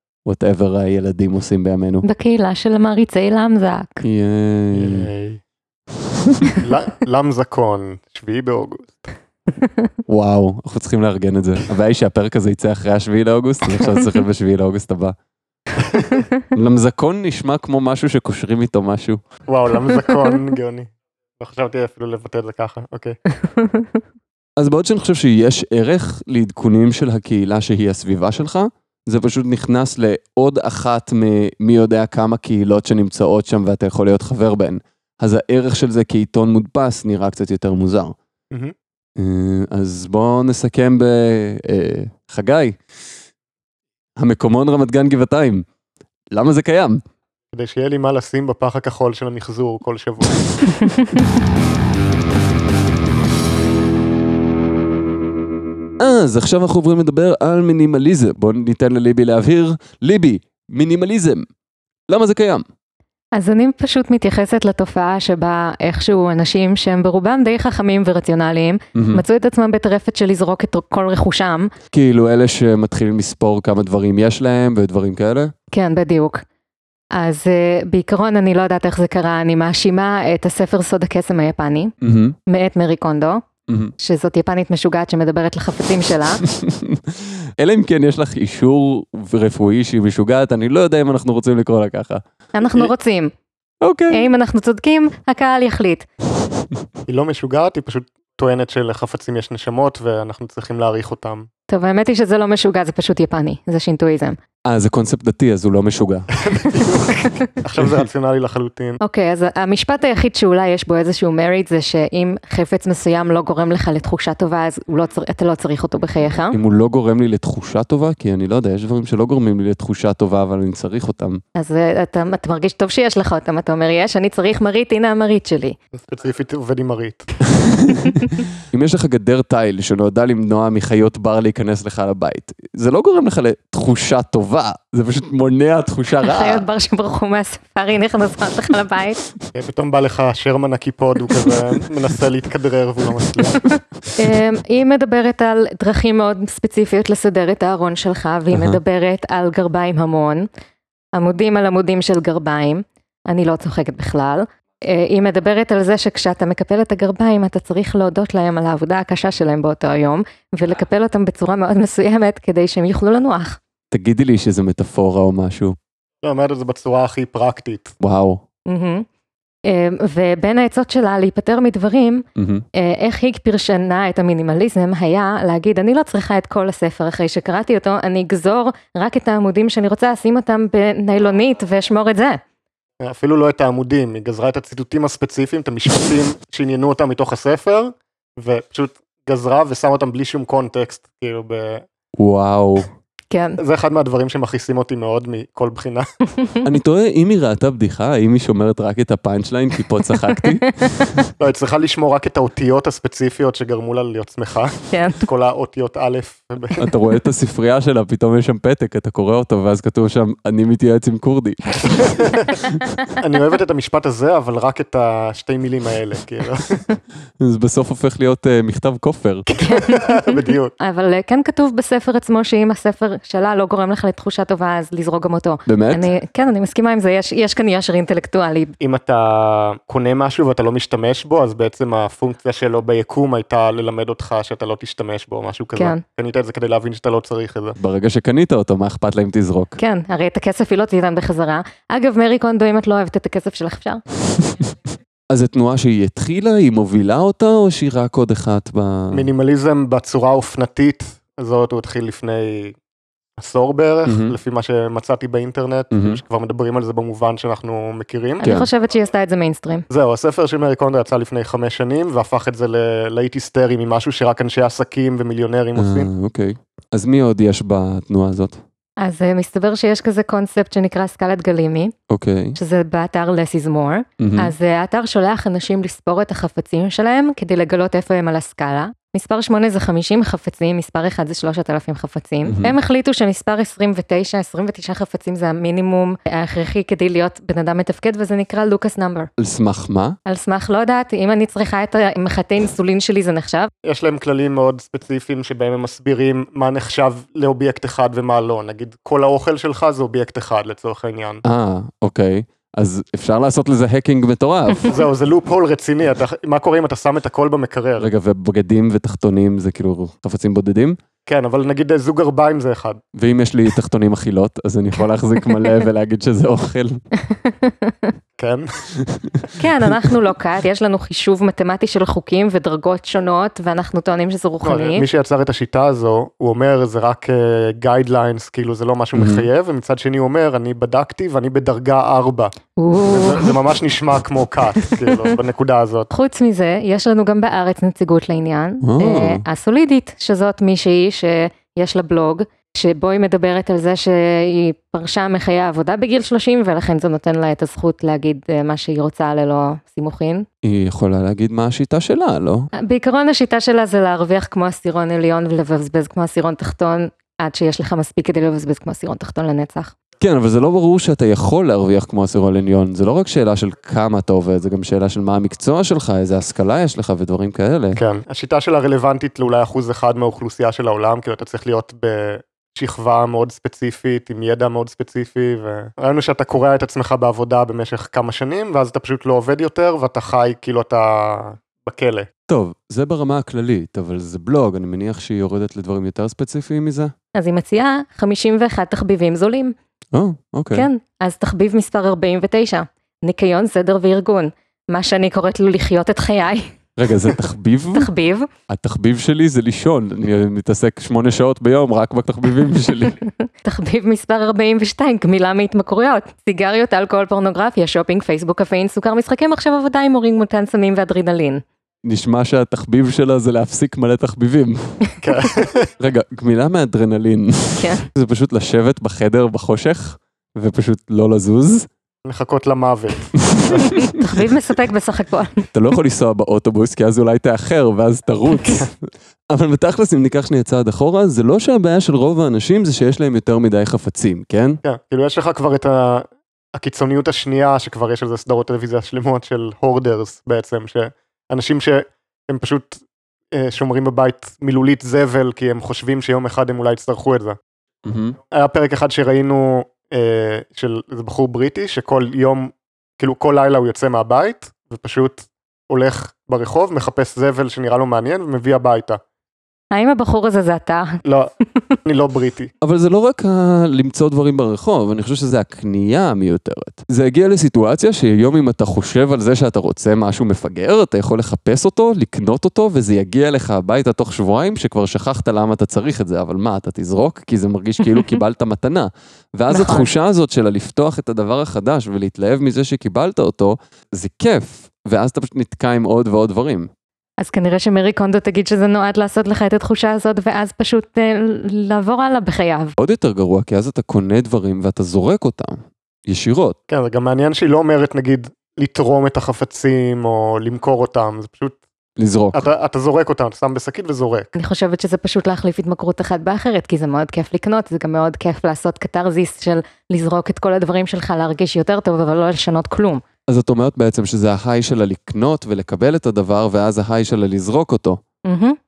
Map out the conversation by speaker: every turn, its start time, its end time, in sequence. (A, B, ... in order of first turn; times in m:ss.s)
0:00.2-0:02.0 A
0:02.0-0:04.0 B
0:04.0-0:05.1 A
0:04.7-0:05.4 C
0:06.2-0:06.5 A
0:06.6-0:09.1 C
0:10.1-0:15.2 A
0:15.8-0:16.3 C
0:16.5-0:19.2 A
0:19.5-0:23.2 C
0:23.6-0:23.9 B
0:24.6-0:38.2 A
0:39.2-0:42.8 A
0:44.2-0:45.6 A
0:46.3-0:47.0 A
0:47.5-0:50.7 C
0:56.0-1:01.5 A
1:02.1-1:02.6 A
1:03.3-1:11.7 B
1:09.0-1:09.2 A
1:11.9-1:15.5 A
1:15.7-1:16.4 B
1:17.1-1:21.9 B
1:22.0-1:22.4 A
1:22.5-1:23.4 B
1:23.7-1:23.9 A
1:24.0-1:26.4 B
1:26.4-1:32.2 A
1:32.6-1:33.3 B
1:33.8-1:34.3 A
1:34.1-1:36.1 B
1:37.1-1:41.5 C
1:41.7-1:44.4 B
1:44.7-1:46.3 A
1:46.4-1:49.0 C
1:49.0-1:56.6 B
1:56.5-2:01.4 A
2:01.6-2:05.8 B
2:05.9-2:07.3 C
2:07.6-2:16.7 A
2:16.2-2:19.2 B
2:19.5-2:23.7 C
2:24.2-2:30.5 B
2:28.5-2:28.8 A
2:31.1-2:43.6 B
2:43.9-2:45.8 A
2:46.2-2:48.0 C
2:48.0-2:48.4 A
2:48.7-2:49.1 B
2:49.7-2:52.2 B
2:52.4-2:52.6 A
2:52.8-3:02.4 B
3:03.0-3:11.9 C
3:12.2-3:12.9 A
3:13.3-3:13.6 B
3:13.6-3:16.1 C
3:16.6-3:21.3 A
3:20.2-3:21.0 B
3:21.4-3:26.8 C
3:24.9-3:25.2 B
3:26.8-3:33.0 A
3:32.0-3:32.6 C
3:33.2-3:36.8 C
3:37.4-3:39.5 A
3:39.6-3:40.2 B
3:39.6-3:40.7 C
3:40.8-3:48.8 B
3:45.7-3:46.1 A
3:48.8-3:57.8 C
3:55.8-3:56.0 B
3:57.8-3:59.8 A
3:59.8-4:04.0 B
4:05.3-4:09.3 A
4:09.1-4:12.8 C
4:13.4-4:18.5 C
4:14.1-4:14.4 A
4:15.9-4:16.2 A
4:18.4-4:19.9 B
4:18.4-4:18.7 A
4:19.9-4:26.1 C
4:25.8-4:28.6 A
4:29.0-4:31.9 B
4:32.1-4:32.6 A
4:32.6-4:49.3 B
4:34.2-4:34.5 A
4:42.5-4:42.8 A
4:49.4-4:50.2 A
4:50.3-4:53.7 B
4:53.8-5:01.4 C
5:01.4-5:04.9 A
5:04.9-5:08.1 C
5:08.0-5:11.0 A
5:11.3-5:13.0 C
5:13.1-5:17.0 A
5:17.3-5:18.1 B
5:18.4-5:18.7 C
5:19.0-5:19.5 A
5:19.6-5:25.0 B
5:24.6-5:36.1 C
5:29.1-5:29.5 A
5:32.8-5:33.6 B
5:36.1-5:50.5 B
5:38.8-5:39.4 A
5:50.6-5:52.7 A
5:52.8-5:59.9 B
6:00.2-6:08.0 A
6:08.0-6:22.3 C
6:22.5-6:27.1 A
6:27.4-6:29.7 B
6:30.1-6:30.9 A
6:30.7-6:36.7 B
6:37.0-6:38.1 A
6:38.0-6:38.5 B
6:38.7-6:43.2 A
6:43.6-6:51.6 B
6:52.0-6:55.0 A
6:55.2-6:55.9 C
6:56.0-7:01.9 A
6:57.8-6:58.1 B
7:02.2-7:03.9 C
7:03.4-7:04.3 A
7:03.8-7:05.6 B
7:05.7-7:09.0 A
7:09.5-7:14.8 A
7:14.8-7:23.0 C
7:23.5-7:27.6 C
7:28.0-7:28.4 A
7:28.5-7:39.2 C
7:39.9-7:41.2 B
7:41.2-7:41.5 C
7:42.0-7:42.7 C
7:42.8-8:06.9 A
7:59.7-8:00.1 B
8:07.4-8:13.0 B
8:13.0-8:16.8 A
8:16.9-8:21.8 C
8:22.2-8:22.6 A
8:22.5-8:24.5 C
8:24.6-8:33.2 B
8:33.5-8:38.2 A
8:38.4-8:38.8 B